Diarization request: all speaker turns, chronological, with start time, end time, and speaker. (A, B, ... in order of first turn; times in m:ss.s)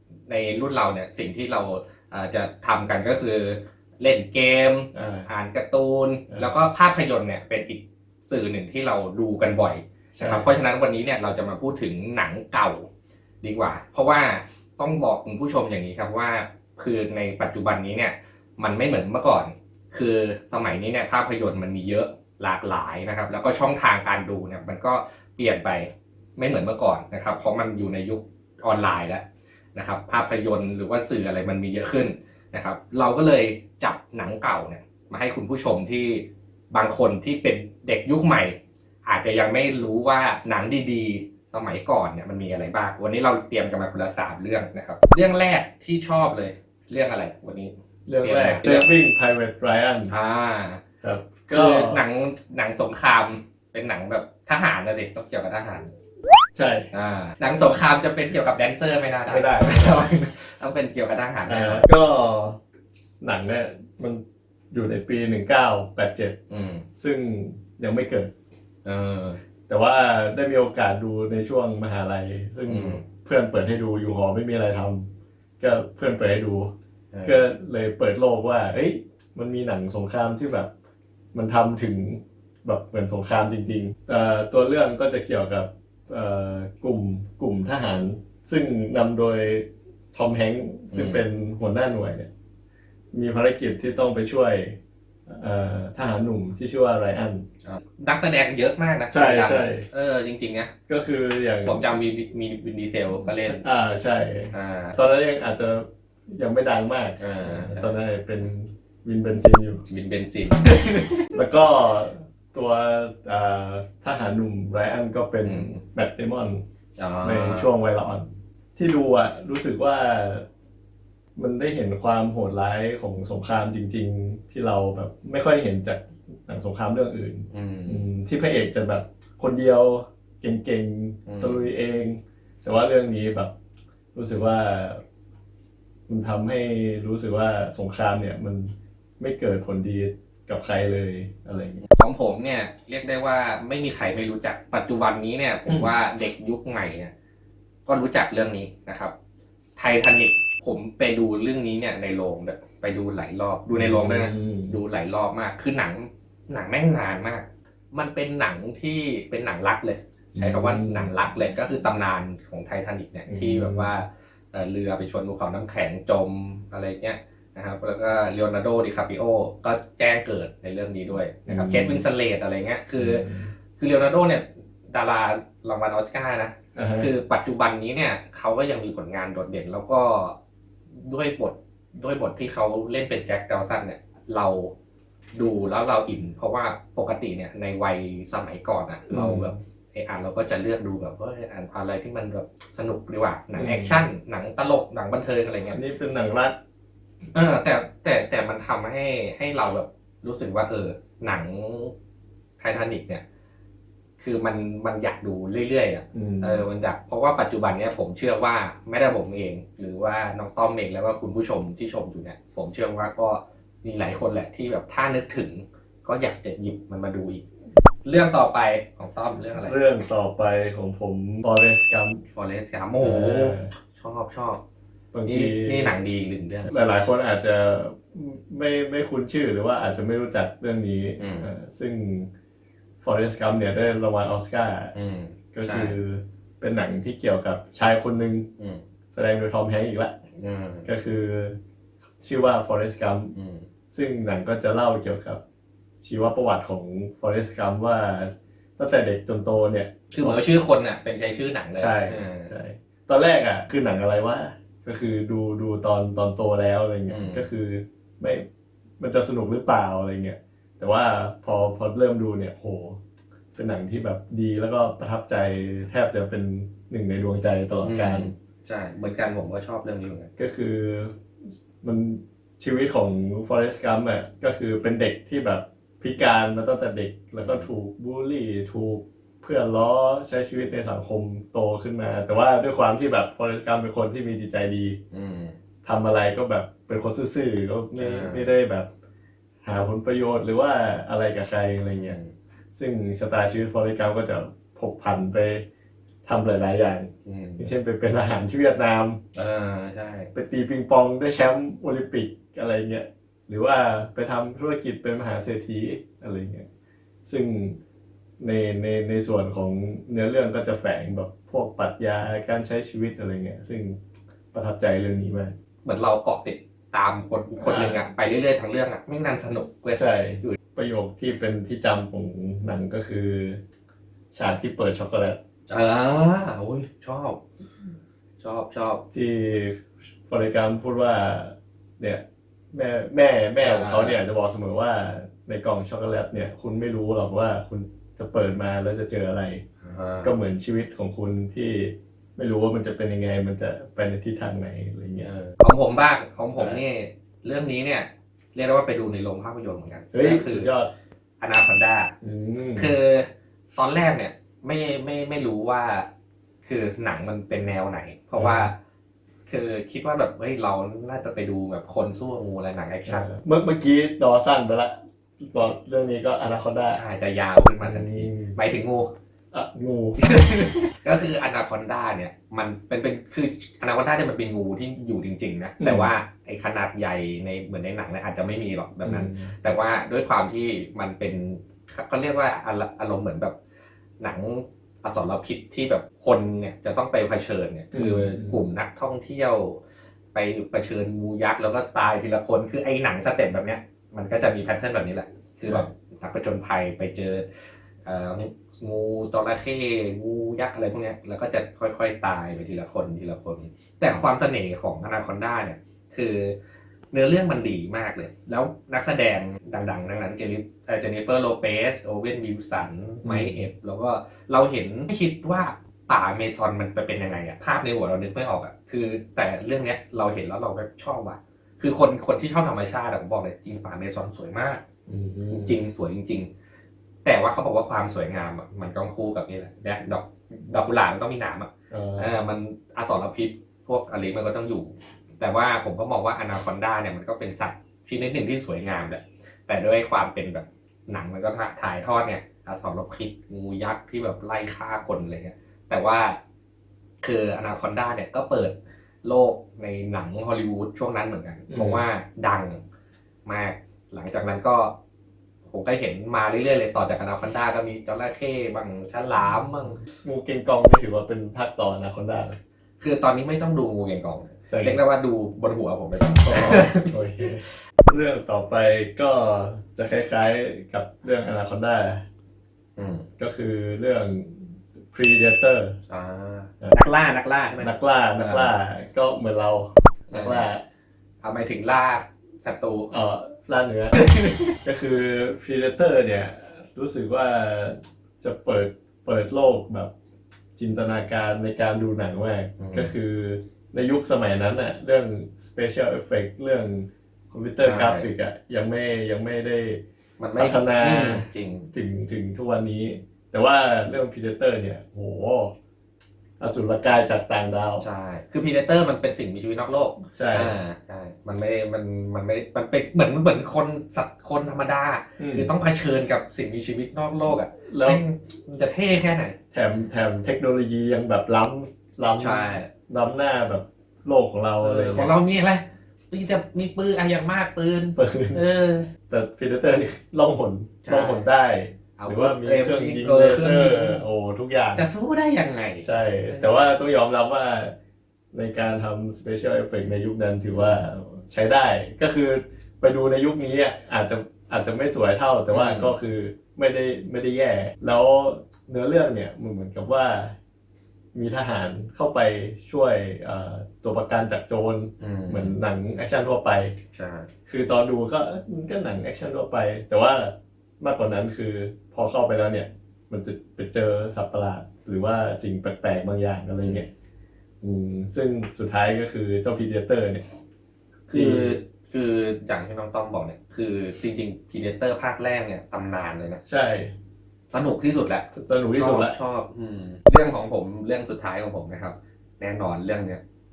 0:00.3-0:12.9 A
0:04.9-0:05.3 B
0:10.1-0:10.5 B
0:13.4-0:29.2 A
0:29.7-0:48.9 A
0:48.1-0:50.1 B
0:50.1-0:50.8 A
0:51.0-0:52.0 B
0:51.5-0:55.9 A
0:56.5-0:56.9 B
0:56.9-1:01.9 A
0:59.3-1:00.0 B
1:01.4-1:02.6 B
1:03.2-1:06.4 B
1:06.5-1:06.8 A
1:07.0-1:08.3 B
1:08.8-1:09.4 A
1:09.7-1:15.1 B
1:12.7-1:13.0 A
1:15.6-1:16.7 B
1:17.1-1:17.4 A
1:17.2-1:20.7 B
1:21.3-1:32.3 B
1:30.9-1:31.2 A
1:33.1-1:37.4 B
1:37.6-1:40.7 A
1:39.1-1:39.9 B
1:40.9-1:41.8 B
1:41.6-1:43.6 A
1:43.3-1:49.8 B
1:44.5-1:44.9 A
1:47.2-1:47.9 A
1:49.9-1:51.2 A
1:51.3-1:56.6 B
1:55.4-1:55.8 A
1:57.0-1:57.7 A
1:57.2-2:00.4 B
2:01.4-2:13.5 B
2:07.5-2:08.0 A
2:11.2-2:11.7 A
2:14.1-2:15.0 B
2:16.1-2:21.8 B
2:21.8-2:27.1 A
2:27.8-2:29.1 A
2:29.8-2:53.2 A
2:33.7-2:34.8 B
2:40.3-2:41.1 B
2:43.3-2:43.9 B
2:51.5-2:52.0 B
2:53.0-2:53.5 B
2:53.8-3:00.4 A
2:56.7-2:57.1 B
3:00.9-3:04.7 A
3:05.3-3:15.8 A
3:09.1-3:09.5 B
3:13.6-3:14.0 B
3:15.7-3:16.6 B
3:17.3-3:21.9 A
3:22.6-3:23.2 A
3:24.2-3:37.4 A
3:26.1-3:26.6 B
3:38.0-3:39.8 A
3:39.6-3:42.2 B
3:42.3-3:44.6 A
3:43.0-3:43.7 B
3:45.1-3:45.9 B
3:45.3-3:46.7 A
3:46.7-3:52.3 B
3:51.2-3:51.5 A
3:53.0-3:54.9 B
3:54.9-3:56.0 A
3:55.5-3:58.5 B
3:59.1-4:00.1 B
4:00.4-4:00.9 A
4:00.8-4:01.6 B
4:02.2-4:03.3 B
4:03.3-4:03.7 A
4:03.9-4:05.4 B
4:06.0-4:10.4 B
4:10.1-4:12.5 A
4:11.8-4:18.4 B
4:17.1-4:17.4 A
4:19.0-4:23.0 B
4:23.5-4:28.3 B
4:27.8-4:30.3 A
4:30.4-4:45.0 B
4:37.4-4:37.7 A
4:45.1-4:45.5 A
4:45.8-4:48.9 B
4:48.0-4:48.5 A
4:49.6-4:52.2 B
4:51.9-4:52.3 A
4:52.7-4:55.6 B
4:56.2-4:59.2 B
4:57.2-4:57.7 A
4:59.3-5:00.3 A
5:00.3-5:06.7 B
5:07.2-5:07.8 B
5:08.4-5:14.0 B
5:14.5-5:15.5 B
5:15.8-5:20.5 A
5:17.6-5:18.0 B
5:19.9-5:23.6 B
5:24.3-5:25.4 B
5:25.7-5:27.4 A
5:28.4-5:29.0 A
5:29.1-5:39.6 B
5:33.6-5:34.2 A
5:39.8-5:40.3 A
5:40.2-5:45.3 B
5:45.2-5:50.7 A
5:46.6-5:46.8 B
5:50.1-5:50.9 B
5:51.4-5:52.1 A
5:52.2-5:52.9 B
5:52.8-5:56.1 A
5:56.6-5:58.7 A
5:58.3-5:58.7 B
5:59.5-6:03.3 A
6:03.0-6:07.0 B
6:06.9-6:09.1 A
6:07.8-6:08.6 B
6:09.5-6:10.2 B
6:10.2-6:23.5 A
6:15.8-6:16.1 B
6:19.0-6:19.5 B
6:24.2-6:29.8 A
6:27.9-6:28.6 B
6:30.3-6:37.4 A
6:38.0-6:46.5 A
6:47.1-7:04.8 A
6:53.2-6:53.7 B
7:05.1-7:05.8 B
7:05.5-7:06.5 A
7:07.2-7:26.4 A
7:11.9-7:12.3 B
7:27.2-7:32.8 A
7:31.7-7:32.0 B
7:33.4-7:34.9 A
7:35.7-7:40.0 A
7:40.1-7:42.6 B
7:43.0-7:47.1 A
7:44.7-7:45.0 B
7:46.4-7:52.2 B
7:53.0-7:53.2 A
7:53.4-7:56.0 B
7:56.1-7:58.7 A
7:57.8-8:00.8 B
8:00.3-8:00.7 A
8:01.4-8:03.1 A
8:03.1-8:04.2 B
8:04.1-8:04.8 A
8:04.8-8:10.1 B
8:10.8-8:20.0 B
8:12.8-8:13.1 A
8:17.8-8:18.3 A
8:20.4-8:21.8 A
8:20.6-8:25.7 B
8:26.6-8:28.0 B
8:28.0-8:39.6 A
8:30.3-8:30.7 B
8:35.4-8:35.7 B
8:37.9-8:38.2 B
8:39.7-8:45.3 B
8:42.4-8:42.9 A
8:44.8-8:49.1 A
8:48.2-8:48.6 B
8:49.3-8:55.0 B
8:51.0-8:51.5 A
8:52.2-8:54.2 A
8:55.0-8:56.9 A
8:56.0-8:57.9 B
8:58.5-9:10.6 B
9:00.7-9:01.0 A
9:05.7-9:06.1 A
9:11.3-9:17.0 B
9:15.2-9:15.8 A
9:17.1-9:17.5 A
9:17.7-9:27.1 B
9:26.8-9:27.1 A
9:27.8-9:30.4 B
9:31.3-9:36.6 A
9:31.3-9:31.8 B
9:36.6-9:37.1 B
9:37.7-9:43.4 A
9:38.5-9:39.4 B